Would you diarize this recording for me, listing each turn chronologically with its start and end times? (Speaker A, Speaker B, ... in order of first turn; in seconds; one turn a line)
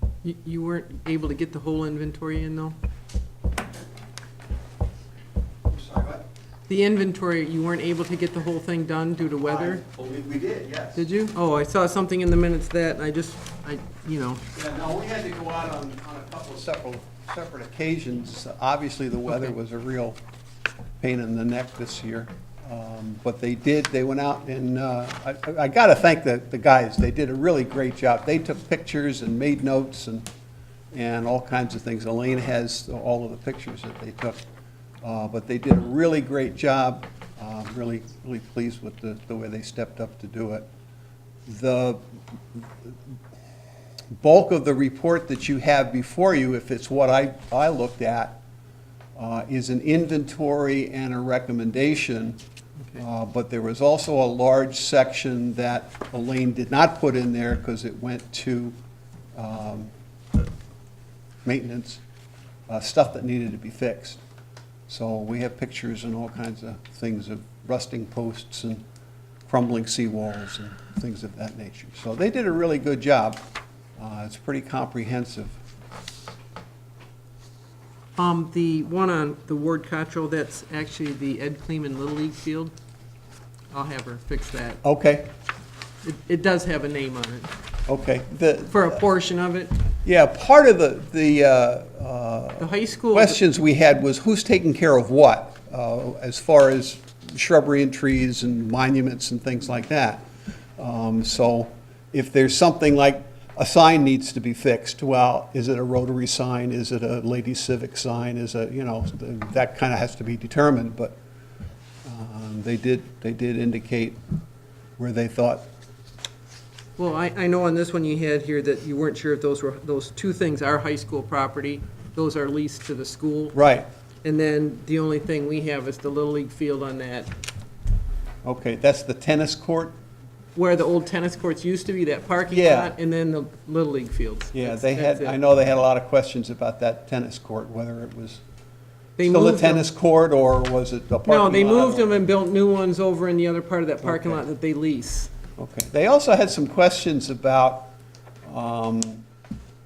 Speaker A: 0.2-2.8
Speaker B: 5.7-6.2
Speaker A: 6.7-9.8
Speaker B: 9.4-11.0
Speaker A: 10.9-14.4
Speaker B: 14.5-20.2
Speaker B: 21.0-30.3
Speaker B: 30.9-34.4
Speaker B: 35.0-40.7
Speaker B: 41.5-42.0
Speaker B: 42.5-43.0
Speaker B: 44.1-48.4
Speaker B: 49.2-52.4
Speaker B: 53.0-58.8
Speaker B: 59.4-59.9
Speaker B: 61.4-62.0
Speaker B: 62.7-64.2
Speaker B: 64.9-68.8
Speaker B: 69.5-73.4
Speaker B: 74.0-75.6
Speaker A: 78.2-82.7
Speaker A: 83.7-84.8
Speaker B: 84.8-85.3
Speaker A: 86.0-87.5
Speaker B: 87.9-89.0
Speaker A: 88.7-89.8
Speaker B: 90.0-100.2
Speaker A: 92.6-93.4
Speaker B: 100.8-111.2
Speaker B: 112.0-114.2
Speaker B: 115.0-115.7
Speaker A: 117.0-123.5
Speaker B: 123.5-123.9
Speaker A: 124.2-127.3
Speaker B: 128.4-130.0
Speaker A: 130.6-135.4
Speaker B: 132.5-132.9
Speaker B: 134.5-138.4
Speaker A: 139.2-139.9
Speaker B: 139.2-142.1
Speaker A: 141.3-145.3
Speaker B: 144.0-144.4
Speaker B: 145.6-147.9
Speaker B: 148.4-149.2